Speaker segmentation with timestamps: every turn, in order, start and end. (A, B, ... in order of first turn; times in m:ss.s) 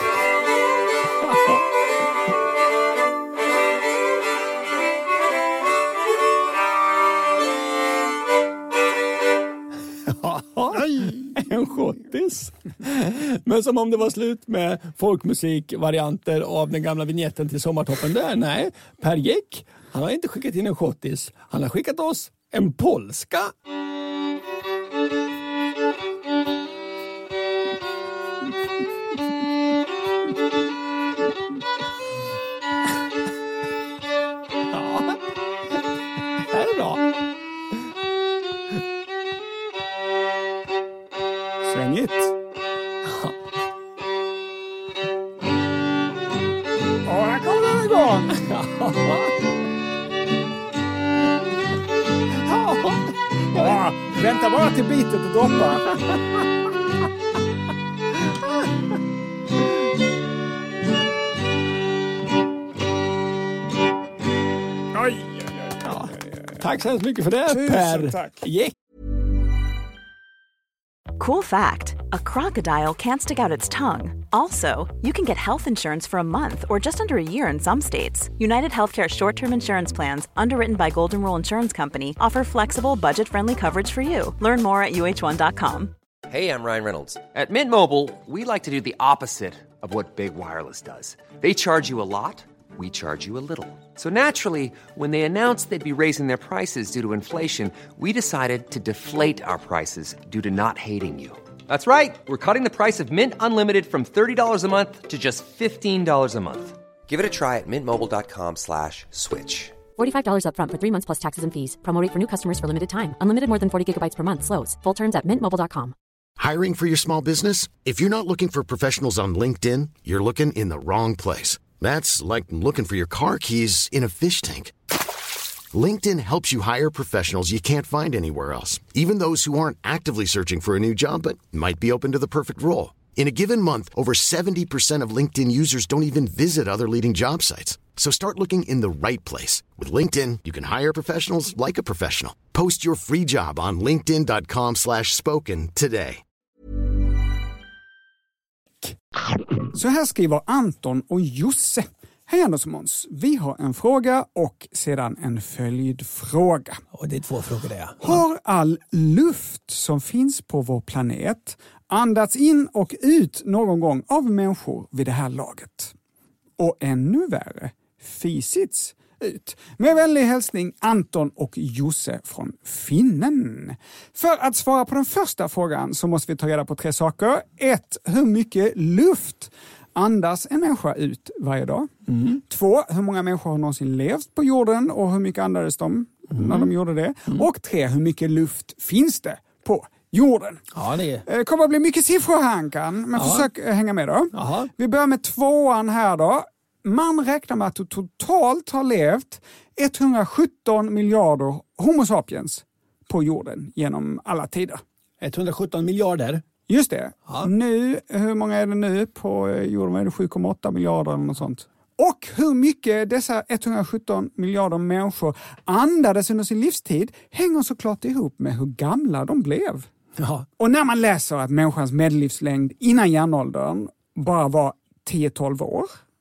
0:10.1-0:23.5 A
0:34.7-0:35.2 A
0:36.4-0:37.0 A
0:41.6-0:42.3 B
0:43.0-0:43.3 A
0:47.0-0:48.5 B
0:48.3-0:49.4 A
0:52.4-0:53.2 A
0:53.5-0:55.9 B
1:04.9-1:06.6 B
1:05.8-1:08.7 A
1:07.5-1:08.4 B
1:11.2-1:25.9 C
1:26.3-1:49.8 D
1:50.0-1:55.9 E
1:56.4-2:04.7 F
2:05.7-2:26.2 F
2:29.7-2:36.8 B
2:36.9-2:38.2 A
2:38.0-2:45.9 B
2:46.6-3:10.6 B
3:02.1-3:02.4 A
3:06.3-3:06.7 A
3:10.7-3:11.3 A
3:11.3-3:24.8 B
3:13.2-3:13.5 A
3:14.3-3:14.7 A
3:25.2-3:26.4 A
3:26.7-3:39.9 B
3:40.2-3:40.5 A
3:40.6-3:46.0 B